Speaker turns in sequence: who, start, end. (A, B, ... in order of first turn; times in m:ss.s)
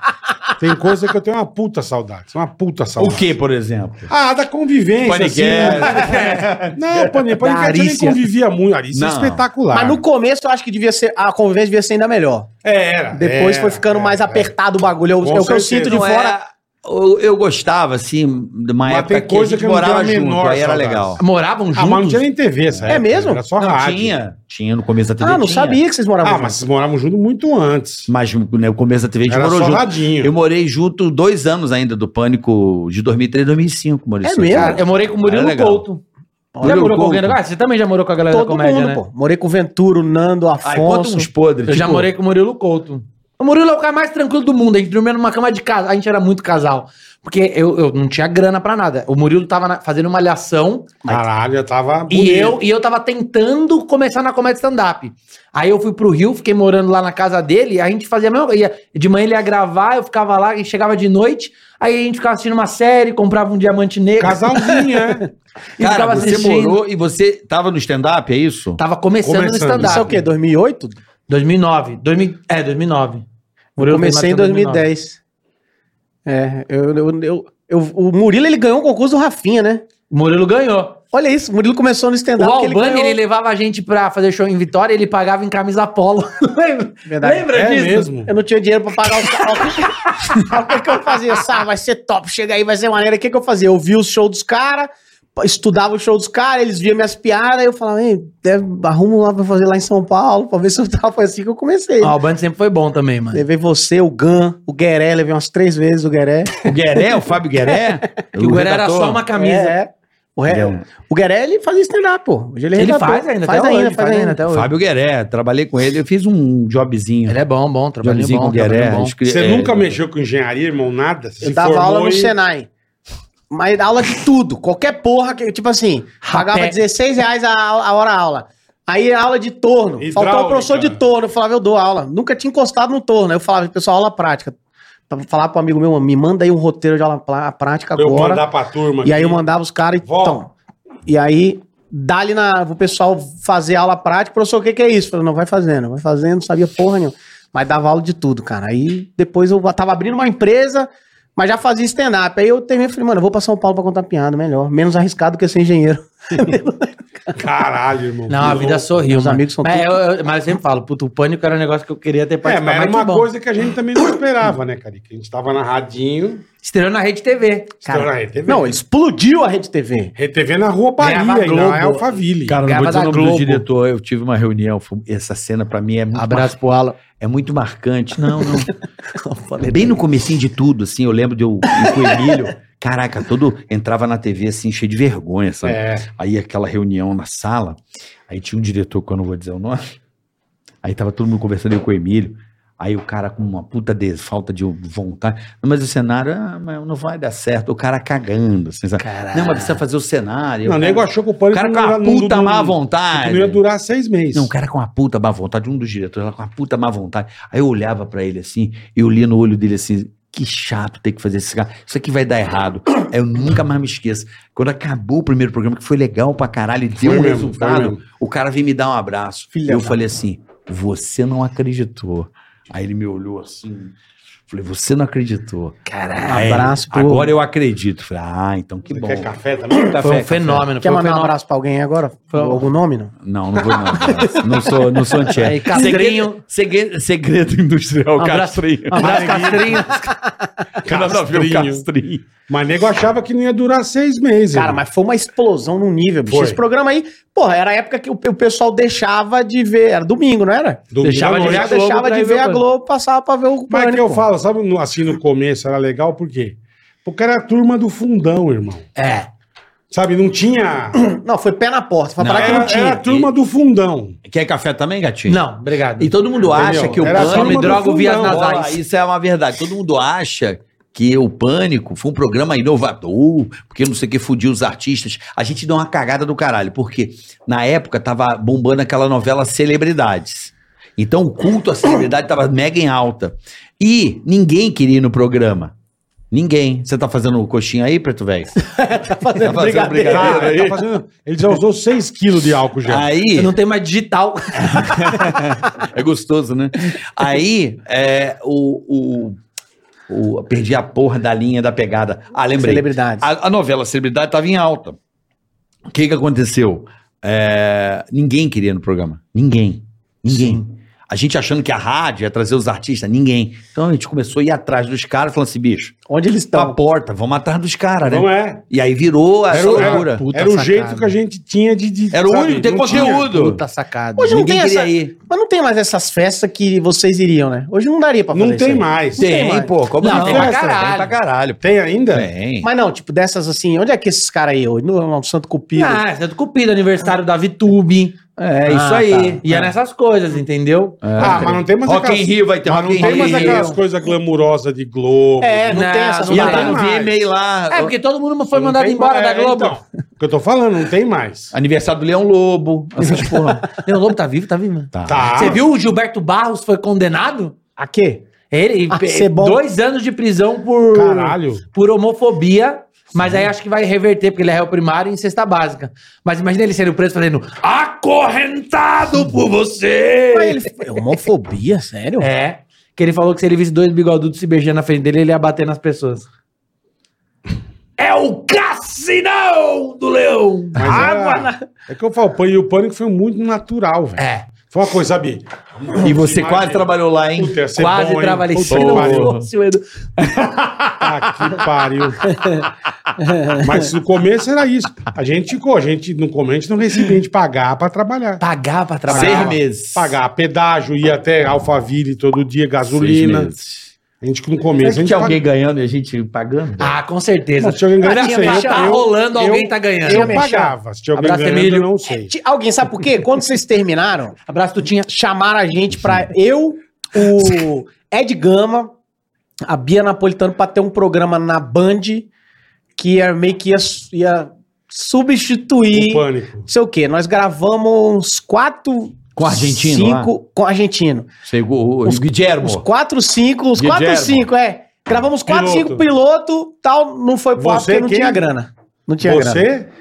0:00.6-0:03.3 A
0:03.0-0:04.1 B
0:04.1-0:10.0 A
0:05.0-0:07.2 B
0:06.0-0:06.4 C
0:07.4-0:08.2 C
0:08.9-0:09.4 B
0:09.7-0:12.5 D
0:12.6-0:14.5 A
0:13.1-0:16.4 D
0:15.2-0:16.0 A
0:15.8-0:21.2 B
0:18.8-0:21.2 A
0:21.2-0:22.2 C
0:21.7-0:24.2 A
0:22.7-0:23.0 B
0:22.9-0:23.4 D
0:23.6-0:25.8 B
0:25.2-0:26.6 D
0:26.2-0:28.1 A
0:28.1-0:35.8 B
0:29.3-0:30.3 A
0:34.2-0:34.8 D
0:34.5-0:36.0 C
0:36.5-0:36.9 D
0:36.6-0:39.0 C
0:36.6-0:37.3 B
0:38.3-0:41.3 D
0:40.6-0:42.1 B
0:41.7-0:50.9 C
0:51.0-0:52.6 A
0:52.1-1:04.8 C
1:04.2-1:05.3 A
1:05.8-1:06.8 C
1:05.8-1:08.8 B
1:08.8-1:10.1 C
1:09.2-1:10.2 A
1:09.8-1:11.0 D
1:11.3-1:13.2 C
1:13.8-1:15.2 D
1:13.8-1:14.9 C
1:16.2-1:19.8 D
1:20.1-1:21.0 C
1:21.1-1:23.2 D
1:22.4-1:28.1 C
1:27.1-1:27.5 D
1:27.5-1:28.3 A
1:28.2-1:42.2 D
1:42.0-1:43.4 C
1:43.3-1:46.6 D
1:46.6-1:49.2 B
1:48.4-1:49.8 C
1:49.3-1:54.4 D
1:50.5-1:50.8 B
1:52.8-1:54.7 C
1:54.5-1:57.4 B
1:57.3-1:59.1 C
1:58.0-1:59.9 B
1:59.2-2:02.3 A
2:01.4-2:02.7 D
2:03.5-2:14.6 D
2:06.2-2:06.8 C
2:10.0-2:11.0 A
2:15.1-2:18.4 D
2:17.9-2:19.4 A
2:19.0-2:20.5 D
2:20.0-2:20.4 A
2:21.0-2:36.9 D
2:37.3-2:38.9 A
2:38.3-2:43.3 C
2:39.0-2:40.0 D
2:42.4-2:46.4 A
2:46.6-2:48.0 C
2:47.8-2:48.7 A
2:48.5-2:50.1 D
2:50.2-2:52.6 A
2:51.0-2:53.6 C
2:52.5-2:56.5 B
2:56.1-2:57.0 C
2:57.2-2:58.7 B
2:59.1-3:00.0 C
2:59.6-3:09.9 B
3:05.6-3:06.1 A
3:10.8-3:23.6 B
3:19.0-3:19.8 C
3:20.6-3:24.5 A
3:24.3-3:43.9 B
3:37.0-3:38.0 A
3:39.5-3:40.0 D
3:44.5-3:45.8 B
3:45.8-3:46.6 C
3:46.3-3:47.3 D
3:46.3-3:50.6 B
3:48.9-3:50.0 A
3:50.0-3:51.3 C
3:50.8-3:54.8 D
3:52.3-3:52.6 C
3:53.2-3:59.2 B
3:55.4-3:56.4 C
3:58.2-4:00.0 C
3:59.0-3:59.9 A
3:59.3-4:00.5 D
4:00.8-4:01.8 A
4:00.8-4:02.2 B
4:02.5-4:04.8 A
4:04.5-4:14.2 D
4:06.2-4:06.6 A
4:10.9-4:11.7 A
4:11.0-4:12.6 C
4:13.7-4:18.8 A
4:19.0-4:19.3 C
4:19.9-4:21.0 A
4:20.9-4:23.0 D
4:22.2-4:23.3 B
4:22.3-4:24.2 A
4:24.3-4:25.4 B
4:25.3-4:28.8 C
4:26.0-4:45.7 B
4:26.5-4:28.4 A
4:46.3-4:48.5 B
4:48.6-4:50.5 D
4:49.4-4:50.8 B
4:50.0-4:53.1 A
4:52.8-4:53.5 B
4:53.4-4:55.3 C
4:54.7-4:59.4 B
5:00.1-5:05.0 B
5:02.5-5:03.2 D
5:05.9-5:16.0 B
5:10.3-5:10.6 D
5:16.1-5:16.8 D
5:16.5-5:20.2 B
5:18.0-5:18.6 A
5:19.5-5:23.3 A
5:19.6-5:21.1 C
5:22.1-5:23.6 B
5:22.9-5:24.4 C
5:24.2-5:29.7 D
5:24.2-5:25.1 B
5:28.3-5:29.2 A
5:29.2-5:32.7 B
5:30.0-5:31.1 C
5:30.1-5:30.8 A
5:31.6-5:32.3 A
5:32.6-5:36.0 D
5:35.8-5:38.2 C
5:38.4-5:39.7 B
5:38.7-5:39.4 D
5:39.4-5:41.6 C
5:41.0-5:43.8 B
5:41.2-5:47.2 A
5:43.0-5:43.8 C
5:45.4-5:46.8 D
5:45.7-5:46.8 C
5:46.3-5:47.9 B
5:47.7-5:49.8 C
5:48.5-5:51.5 A
5:51.5-5:53.7 B
5:53.1-5:53.4 D
5:53.7-5:57.6 C
5:54.9-5:55.6 B
5:55.0-5:55.6 A
5:57.8-5:58.2 D
5:58.5-6:10.7 C
5:58.9-5:59.6 D
6:00.9-6:01.6 A
6:10.3-6:12.3 D
6:12.2-6:16.3 C
6:18.0-6:21.2 C
6:20.8-6:29.3 A
6:20.8-6:21.0 B
6:20.9-6:21.6 D
6:24.2-6:24.5 C
6:26.0-6:27.6 B
6:27.8-6:29.8 C
6:28.7-6:29.5 B
6:30.2-6:31.6 B
6:31.0-6:32.3 A
6:33.2-6:33.8 D
6:33.6-6:38.4 A
6:38.4-6:39.6 C
6:39.1-6:43.5 A
6:39.1-6:40.2 B
6:42.8-6:43.9 B
6:44.2-6:45.4 A
6:44.8-6:47.0 B
6:46.8-6:50.5 C
6:47.6-6:52.3 A
6:48.0-6:49.0 D
6:50.0-6:50.7 D
6:51.2-6:51.9 C
6:52.2-6:54.4 D
6:54.5-6:55.1 C
6:55.1-6:58.9 D
6:59.6-7:02.3 D
7:03.0-7:11.3 D
7:05.9-7:06.7 A
7:09.3-7:10.3 B
7:11.4-7:12.8 B
7:12.0-7:19.7 D
7:13.8-7:14.5 B
7:15.4-7:16.0 A
7:17.6-7:18.4 A
7:19.2-7:19.9 A